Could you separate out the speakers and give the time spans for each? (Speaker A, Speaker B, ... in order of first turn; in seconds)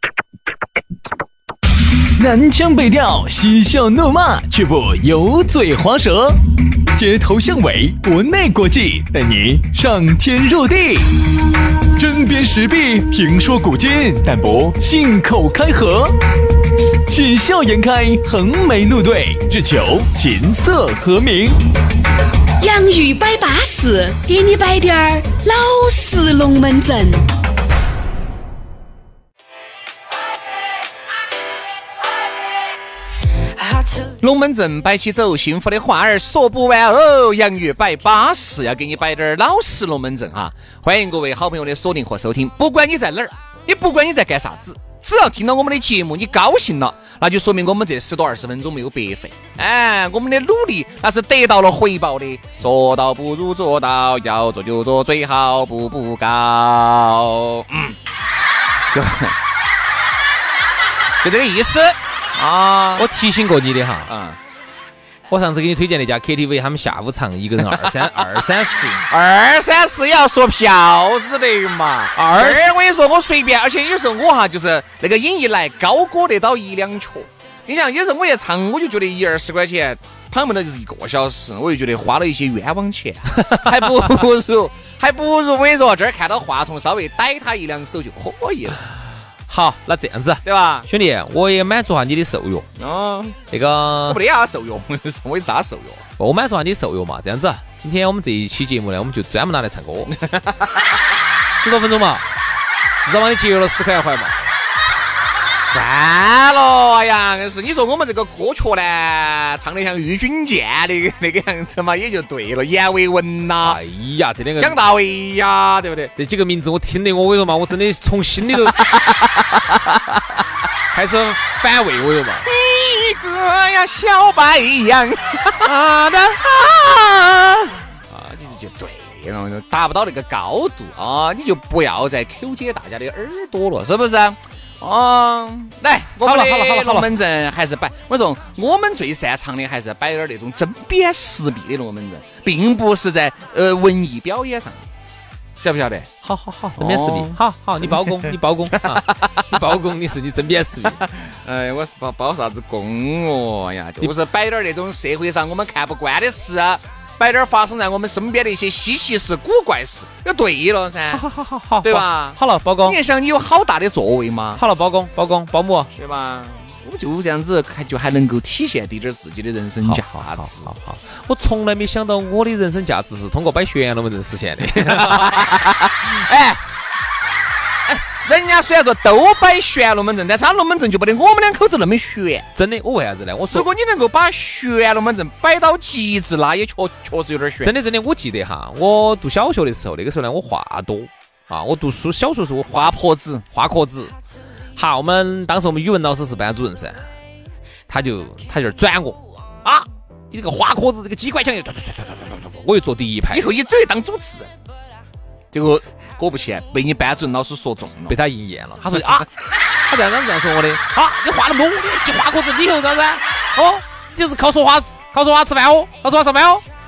Speaker A: 2.2-6.4, 6.9-11.2, 11.9-16.2, 17.1-21.6
Speaker B: 22.6-27.2, 33.6-34.1
Speaker C: 34.2-58.0, 58.9-59.4, 61.2-63.1, 64.1-64.4, 67.6-68.2, 69.0-88.8, 90.4-90.9, 92.8-93.4, 94.0-96.0, 100.1-101.0, 105.7-113.8, 114.6-116.1, 118.5-120.4, 122.4-125.7, 126.4-144.9, 145.6-146.1, 146.8-149.6, 150.8-161.2, 161.8-164.6, 165.9-170.7, 174.7-176.6, 177.8-182.5, 183.5-187.7, 192.7-193.4, 203.3-204.5, 205.5-208.2, 208.9-209.2
Speaker D: 63.0-64.1, 65.3-69.0, 72.1-72.7, 89.5-92.7, 93.5-94.2, 96.2-100.1, 101.5-102.2, 103.0-104.3, 113.6-114.8, 116.2-118.9, 120.9-122.5, 125.6-126.4, 136.2-137.1, 146.2-151.0, 161.1-163.0, 164.6-165.9, 169.8-175.6, 182.5-183.7, 187.6-192.9, 193.5-194.1, 194.8-197.0, 197.9-199.2, 200.3-203.5, 208.1-209.3, 209.8-216.6